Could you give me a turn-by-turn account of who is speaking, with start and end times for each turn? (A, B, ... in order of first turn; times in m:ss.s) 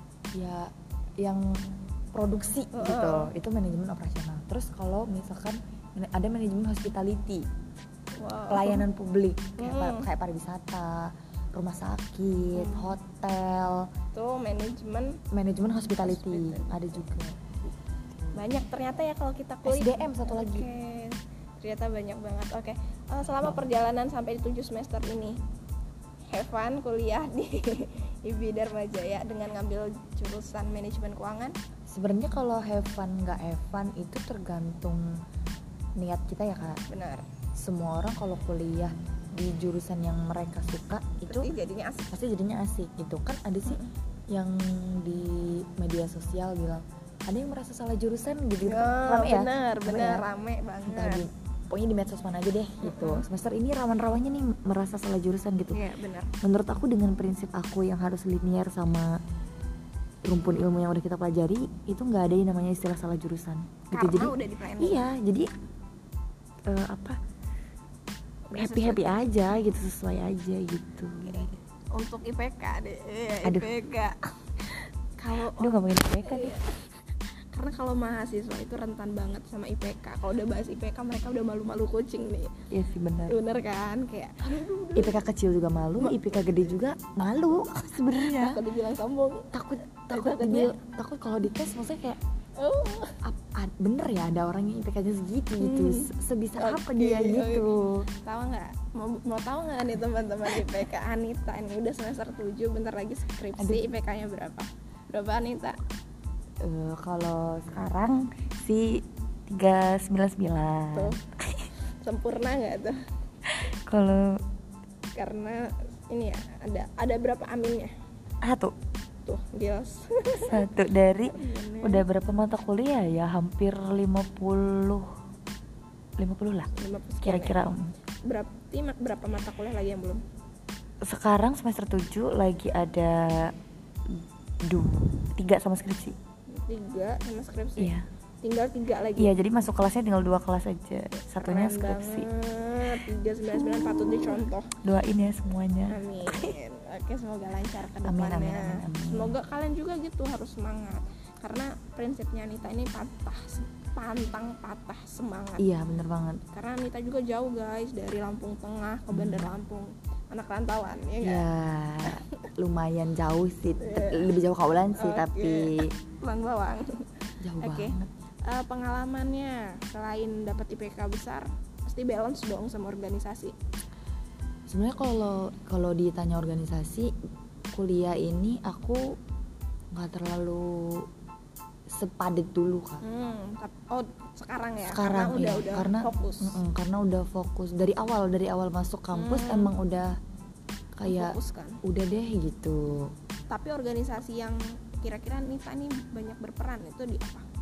0:00.4-0:07.5 A
0:02.7-0:03.3 B
0:08.2-0:08.9 B
0:08.5-0:13.9 A
0:09.6-0:10.1 B
0:12.5-0:12.9 B
0:14.1-0:15.2 B
0:15.3-0:18.4 A
0:16.0-0:17.0 B
0:18.4-0:25.4 B
0:19.6-0:20.7 A
0:23.3-0:23.6 A
0:26.3-0:31.6 B
0:31.9-0:35.1 A
0:36.0-0:36.8 A
0:36.9-0:37.3 B
0:37.6-0:41.5 A
0:41.3-0:42.1 B
0:42.1-0:50.2 A
0:48.6-0:51.2 B
0:50.9-0:55.8 A
0:52.8-0:53.2 B
0:55.7-0:56.3 B
0:56.4-0:59.2 A
1:00.3-1:05.5 A
1:03.9-1:05.1 B
1:06.7-1:07.2 A
1:08.5-1:09.2 B
1:08.5-1:11.5 A
1:11.2-1:16.8 B
1:13.4-1:13.7 A
1:15.5-1:16.6 A
1:17.5-1:22.5 B
1:22.7-1:23.4 A
1:23.3-1:25.2 B
1:25.0-1:28.6 A
1:26.0-1:26.7 B
1:28.1-1:29.5 B
1:29.5-1:32.2 A
1:30.1-1:30.7 B
1:32.6-1:33.2 B
1:33.2-1:38.1 A
1:35.6-1:37.7 B
1:38.2-1:45.8 B
1:43.6-1:43.8 A
1:46.6-1:51.7 A
1:52.0-1:53.0 B
1:53.5-1:54.4 A
1:55.2-1:57.9 B
1:58.4-1:58.7 A
1:59.3-2:00.7 B
2:00.5-2:05.1 A
2:01.3-2:02.0 B
2:06.2-2:06.7 A
2:06.7-2:07.6 B
2:07.2-2:07.9 A
2:08.3-2:10.2 B
2:11.0-2:13.5 A
2:14.1-2:16.2 A
2:16.5-2:19.3 B
2:17.8-2:18.1 A
2:19.2-2:22.3 A
2:21.4-2:24.7 B
2:23.0-2:26.6 A
2:25.9-2:35.7 B
2:28.0-2:29.4 A
2:35.6-2:36.4 A
2:36.5-2:41.4 B
2:39.1-2:39.6 A
2:41.2-2:45.9 A
2:43.8-2:44.3 B
2:45.0-2:47.1 B
2:47.4-2:48.1 A
2:47.6-2:48.0 B
2:48.5-2:53.5 B
2:54.7-2:57.1 A
2:57.7-2:59.2 A
2:59.9-3:01.1 A
3:01.9-3:03.0 A
3:03.0-3:06.6 B
3:04.8-3:10.2 A
3:09.1-3:09.7 B
3:11.0-3:13.1 A
3:11.1-3:11.8 B
3:13.5-3:17.4 B